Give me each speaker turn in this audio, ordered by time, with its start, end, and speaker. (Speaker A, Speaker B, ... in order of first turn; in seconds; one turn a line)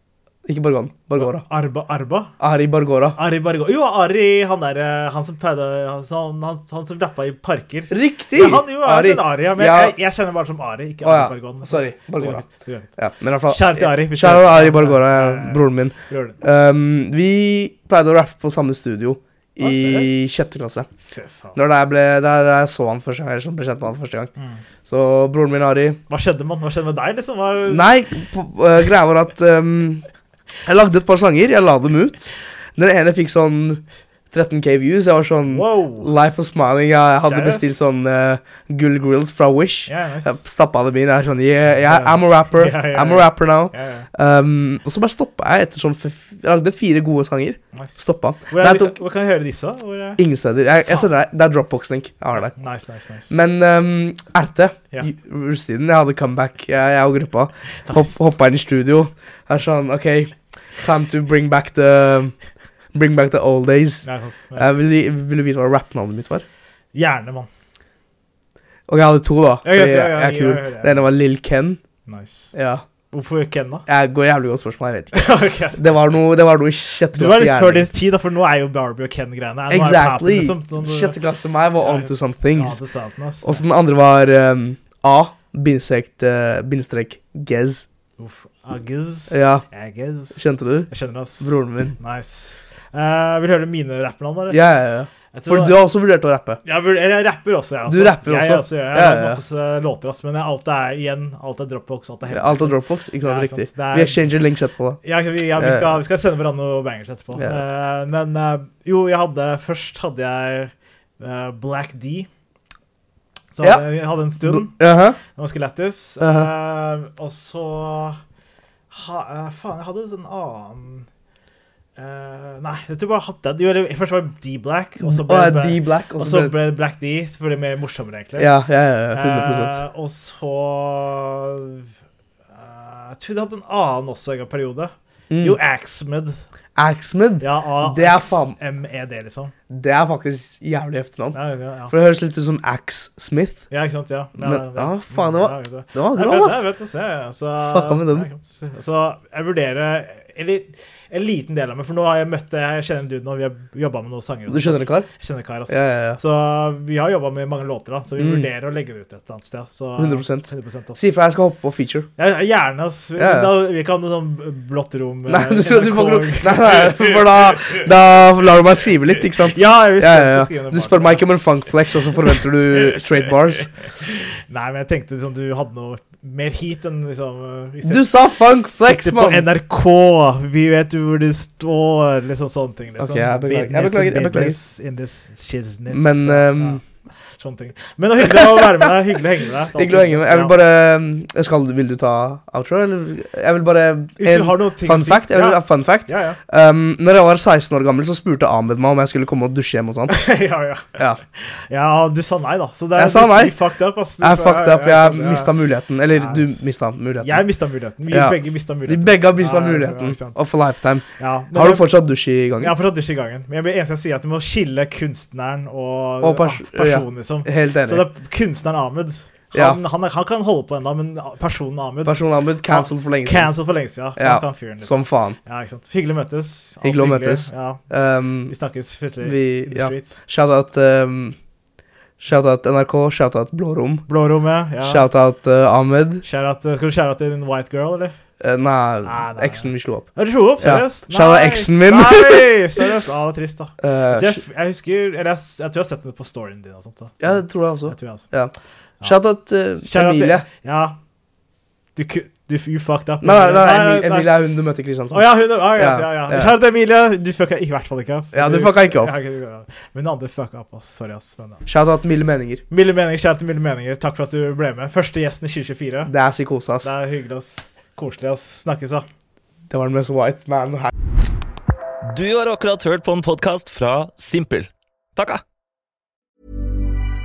Speaker A: 0.5-1.4
Speaker B: 1.1-2.3
Speaker A: 2.4-3.2
Speaker B: 3.2-16.4
Speaker A: 7.9-9.9
Speaker A: 11.0-12.4
Speaker A: 13.0-20.9
Speaker B: 19.6-20.1
Speaker B: 21.1-21.6
Speaker A: 21.6-24.3
Speaker B: 24.4-24.6
Speaker A: 24.9-26.0
Speaker B: 26.1-27.9
Speaker A: 27.7-30.1
Speaker A: 30.6-49.0
Speaker B: 35.5-36.1
Speaker B: 37.2-37.8
Speaker B: 39.9-40.4
Speaker B: 41.8-44.1
Speaker B: 47.8-50.2
Speaker A: 50.2-52.6
Speaker B: 52.3-53.4
Speaker A: 53.3-62.4
Speaker B: 57.9-58.2
Speaker A: 62.9-66.5
Speaker B: 64.0-64.8
Speaker B: 66.9-67.5
Speaker A: 68.9-71.8
Speaker B: 69.6-71.1
Speaker B: 72.1-72.5
Speaker A: 72.5-72.8
Speaker B: 73.1-73.8
Speaker A: 73.9-77.9
Speaker B: 75.2-75.9
Speaker B: 77.1-81.2
Speaker A: 79.7-82.8
Speaker B: 81.8-83.7
Speaker A: 83.4-87.9
Speaker B: 88.2-94.6
Speaker A: 89.3-89.7
Speaker A: 90.3-92.0
Speaker A: 94.5-96.6
Speaker B: 95.3-95.8
Speaker B: 96.6-104.2
Speaker A: 97.9-99.4
Speaker A: 102.3-105.0
Speaker B: 105.0-112.3
Speaker A: 105.6-106.0
Speaker A: 107.3-107.6
Speaker B: 113.5-118.2
Speaker A: 113.6-113.9
Speaker A: 114.4-115.2
Speaker A: 116.2-116.5
Speaker B: 118.9-121.1
Speaker B: 122.0-128.5
Speaker A: 125.0-126.5
Speaker A: 128.4-129.8
Speaker B: 129.1-131.9
Speaker B: 132.5-136.4
Speaker A: 135.3-135.6
Speaker A: 136.8-138.6
Speaker B: 137.4-139.5
Speaker A: 139.7-141.4
Speaker B: 141.3-141.9
Speaker A: 141.9-143.7
Speaker B: 143.7-161.1
Speaker A: 144.4-146.7
Speaker A: 147.6-148.3
Speaker A: 154.5-155.1
Speaker A: 155.7-156.2
Speaker A: 158.2-158.5
Speaker A: 160.0-162.1
Speaker B: 162.2-167.7
Speaker A: 163.2-163.6
Speaker A: 165.3-173.7
Speaker B: 169.4-171.2
Speaker B: 174.1-178.1
Speaker A: 177.8-179.5
Speaker B: 178.8-190.6
Speaker A: 183.0-184.6
Speaker A: 185.9-186.8
Speaker A: 188.2-188.9
Speaker A: 189.8-200.2
Speaker B: 194.2-196.4
Speaker B: 200.1-205.6
Speaker A: 201.0-201.2
Speaker A: 202.9-203.6
Speaker A: 204.2-207.4
Speaker B: 206.1-206.6
Speaker B: 207.2-210.4
Speaker A: 208.1-212.8
Speaker B: 211.2-211.9
Speaker B: 212.6-227.8
Speaker A: 216.2-218.1
Speaker A: 219.5-219.8
Speaker A: 222.1-223.5
Speaker A: 224.2-225.4
Speaker A: 226.8-228.5
Speaker B: 228.5-230.2
Speaker A: 229.2-231.4
Speaker A: 232.2-234.1
Speaker B: 234.1-235.1
Speaker A: 234.8-236.2
Speaker B: 236.2-238.2
Speaker A: 238.4-240.1
Speaker B: 239.1-248.3
Speaker A: 240.6-242.8
Speaker A: 243.8-244.4
Speaker A: 247.2-250.5
Speaker B: 249.8-251.0
Speaker B: 252.0-254.3
Speaker A: 253.2-256.6
Speaker B: 255.1-261.7
Speaker A: 258.3-259.1
Speaker A: 261.7-262.6
Speaker B: 262.7-266.1
Speaker A: 266.1-266.9
Speaker B: 266.8-269.1
Speaker A: 269.7-270.9
Speaker C: 272.1-275.4